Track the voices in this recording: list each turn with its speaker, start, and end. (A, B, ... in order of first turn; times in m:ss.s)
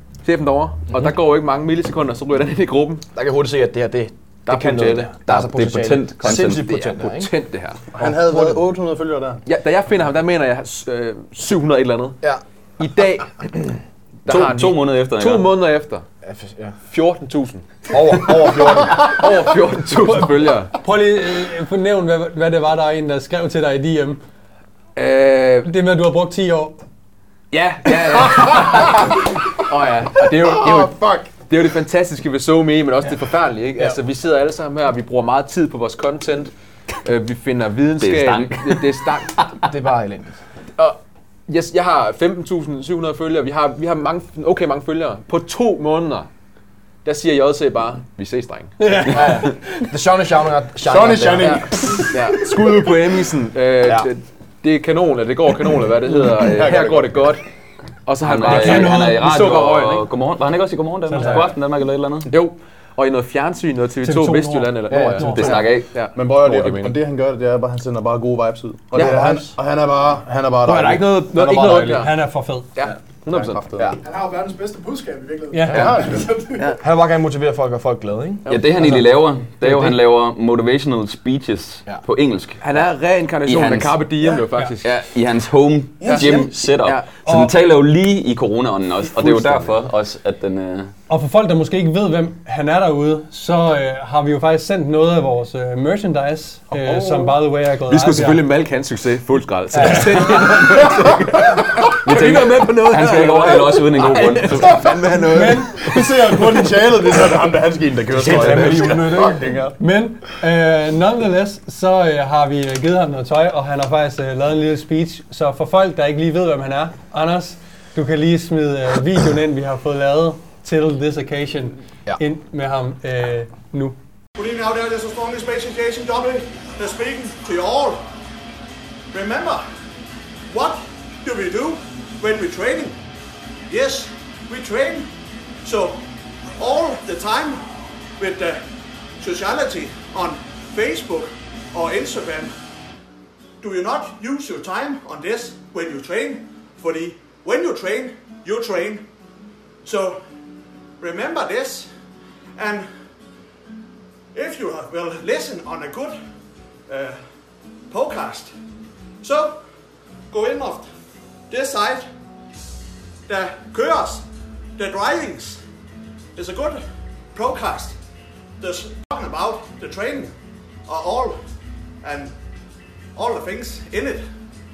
0:00.2-0:03.0 A
0:03.1-0:07.3 B
0:04.4-0:05.1 A
0:05.3-0:06.7 C
0:06.3-0:07.8 A
0:07.9-0:09.4 D
0:08.0-0:08.6 B
0:09.4-0:12.2 A
0:12.8-0:16.0 A
0:14.3-0:15.5 C
0:16.2-0:16.8 B
0:16.9-0:20.7 A
0:17.9-0:19.3 B
0:19.9-0:24.2 E
0:24.9-0:25.7 A
0:25.6-0:26.8 E
0:27.5-0:36.5 A
0:30.4-0:31.2 D
0:37.0-0:39.4 A
0:38.0-0:39.4 C
0:39.7-0:40.4 B
0:40.8-0:46.3 A
0:47.0-0:49.3 A
0:48.8-0:49.9 E
0:49.1-0:51.7 B
0:50.8-0:52.2 D
0:51.4-0:57.4 A
0:53.8-0:54.1 B
0:56.4-0:57.1 D
0:58.0-1:00.1 A
0:58.2-1:02.3 C
0:58.4-0:59.3 E
1:01.1-1:01.4 E
1:02.3-1:07.0 A
1:04.0-1:05.6 E
1:04.9-1:05.5 B
1:05.2-1:05.9 C
1:06.1-1:12.1 D
1:08.9-1:09.5 B
1:09.0-1:09.3 A
1:10.6-1:12.1 A
1:12.0-1:12.7 E
1:12.8-1:13.6 A
1:13.3-1:14.0 D
1:14.2-1:15.4 F
1:15.5-1:16.0 E
1:15.6-1:16.4 D
1:15.7-1:16.0 B
1:16.4-1:16.8 A
1:16.8-1:19.0 B
1:18.4-1:19.0 A
1:18.5-1:22.6 C
1:22.6-1:25.0 A
1:23.4-1:24.0 C
1:24.8-1:30.9 C
1:26.0-1:27.1 A
1:27.2-1:27.5 E
1:29.2-1:29.8 A
1:31.1-1:38.4 E
1:36.8-1:37.3 B
1:37.9-1:46.4 A
1:39.8-1:40.6 B
1:42.0-1:45.0 C
1:45.2-1:45.9 E
1:45.4-1:49.8 D
1:48.1-1:49.5 B
1:48.3-1:48.6 A
1:49.8-2:04.0 E
2:04.4-2:08.0 F
2:09.1-2:09.6 F
2:10.5-2:13.0 F
2:13.7-2:15.1 F
2:15.6-2:16.0 F
2:16.6-2:17.6 F
2:18.2-2:18.6 F
2:19.2-2:22.5 F
2:23.6-2:29.0 F
2:29.8-2:30.2 F
2:31.0-2:31.9 F
2:32.6-2:32.9 F
2:34.3-2:36.2 F
2:36.9-2:37.2 F
2:37.9-2:38.5 F
2:39.2-2:39.6 F
2:40.3-2:40.9 F
2:41.5-2:42.1 F
2:43.3-2:44.2 F
2:44.8-2:45.6 F
2:46.4-2:46.8 F
2:47.3-2:48.0 F
2:48.6-2:50.3 F
2:50.8-2:51.4 F
2:52.0-2:52.3 F
2:53.1-2:54.2 F